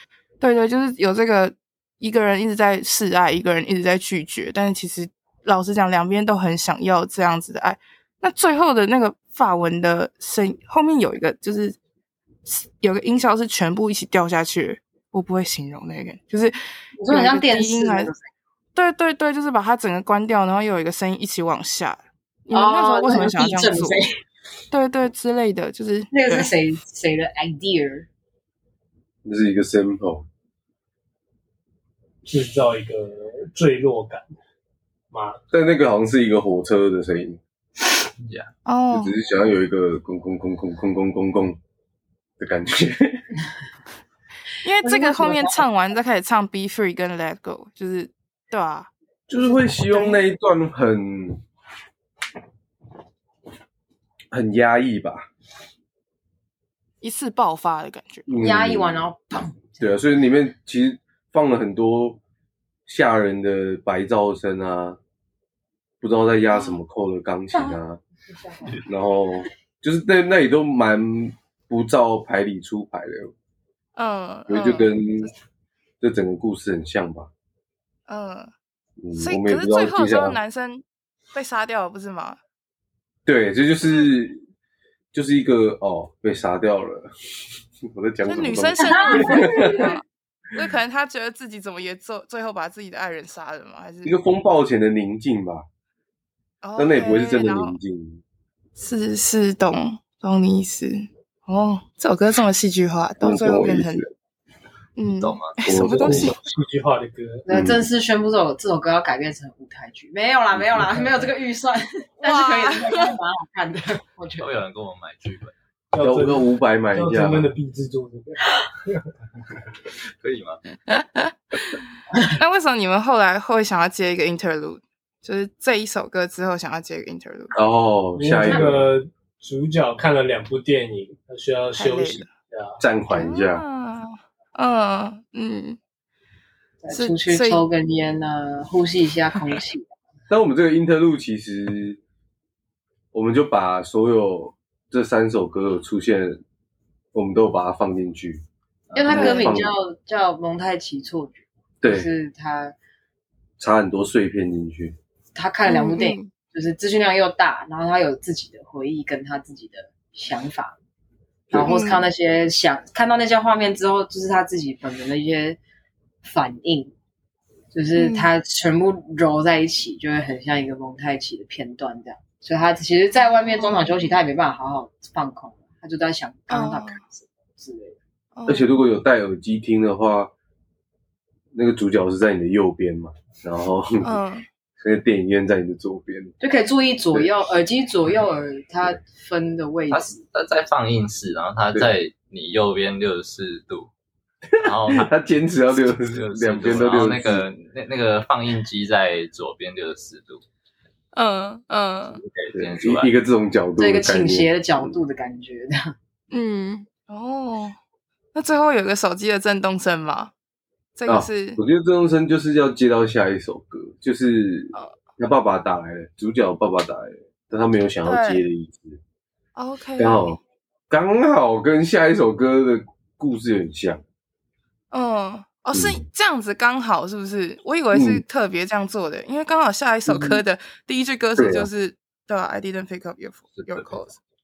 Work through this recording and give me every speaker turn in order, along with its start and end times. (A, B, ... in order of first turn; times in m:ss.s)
0:00.4-0:11.8 A
0:12.5-0:16.6 A
0:17.0-0:18.2 B
0:17.1-0:18.1 A
0:18.8-0:24.0 A
0:22.5-0:24.1 B
0:24.7-0:26.5 A
0:26.1-0:28.1 B
0:29.2-0:30.3 C
0:32.3-0:34.3 D
0:35.1-0:35.4 D
0:35.5-0:37.4 C
0:38.7-0:39.2 A
0:38.9-0:41.6 C
0:42.4-0:43.2 C
0:44.6-0:48.9 A
0:44.8-0:45.6 B
0:49.3-0:51.4 C
0:49.8-0:50.2 A
0:54.3-0:55.3 C
0:57.0-0:58.3 A
0:58.3-0:59.1 C
0:58.4-0:59.8 B
0:59.8-1:02.2 C
1:02.9-1:05.0 C
1:06.0-1:08.0 C
1:06.5-1:06.8 A
1:07.5-1:07.8 B
1:08.4-1:08.8 B
1:08.8-1:13.3 C
1:14.0-1:15.3 A
1:14.5-1:15.3 C
1:16.0-1:17.3 C
1:18.1-1:18.5 A
1:19.0-1:20.4 C
1:19.2-1:22.4 A
1:23.3-1:24.4 C
1:25.1-1:27.1 C
1:27.8-1:30.0 C
1:28.2-1:30.0 A
1:28.8-1:29.9 B
1:30.6-1:34.2 A
1:34.0-1:35.6 C
1:36.6-1:37.8 A
1:36.8-1:38.2 C
1:38.8-1:44.0 A
1:43.2-1:44.1 C
1:45.0-1:46.4 A
1:45.2-1:45.6 E
1:45.6-1:46.4 C
1:45.7-1:47.4 D
1:47.5-1:54.5 B
1:47.5-1:47.8 C
1:52.2-1:53.1 A
1:54.4-1:55.5 E
1:55.9-1:59.0 D
1:56.0-1:57.5 C
2:00.2-2:00.6 E
2:00.9-2:01.8 A
2:02.4-2:07.6 A
2:07.5-2:08.9 C
2:08.2-2:12.8 D
2:11.8-2:12.3 A
2:12.8-2:13.6 C
2:13.1-2:15.8 A
2:16.8-2:19.9 B
2:16.9-2:17.6 A
2:20.3-2:22.0 C
2:23.1-2:26.4 C
2:27.1-2:28.4 C
2:28.9-2:32.7 B
2:29.0-2:29.7 C
2:29.1-2:29.5 A
2:31.8-2:32.1 C
2:33.6-2:35.0 C
2:35.4-2:40.8 B
2:35.7-2:36.3 A
2:41.5-2:45.6 B
2:41.7-2:42.0 A
2:46.2-2:46.9 B
2:47.7-2:58.0 B
2:48.0-2:48.3 A
2:53.2-2:54.1 A
2:56.5-2:57.0 A
2:58.4-2:58.7 A
2:58.5-3:00.3 C
3:01.5-3:04.2 C
3:04.0-3:04.5 A
3:04.8-3:06.4 C
3:06.4-3:10.2 B
3:09.9-3:13.9 E
3:14.6-3:15.1 E
3:14.6-3:17.5 C
3:15.7-3:20.4 E
3:21.1-3:22.2 A
3:22.1-3:23.1 E
3:22.5-3:24.9 C
3:23.8-3:25.9 B
3:26.3-3:27.8 A
3:28.3-3:30.3 A
3:31.0-3:31.6 A
3:31.1-3:39.0 C
3:38.0-3:38.4 A
3:39.6-3:40.4 A
3:40.0-3:40.4 C
3:40.9-3:44.0 C
3:44.9-3:54.2 A
3:45.7-3:46.0 C
3:47.9-3:48.2 C
3:50.1-3:50.4 C
3:51.4-3:51.7 C
3:53.6-3:54.0 E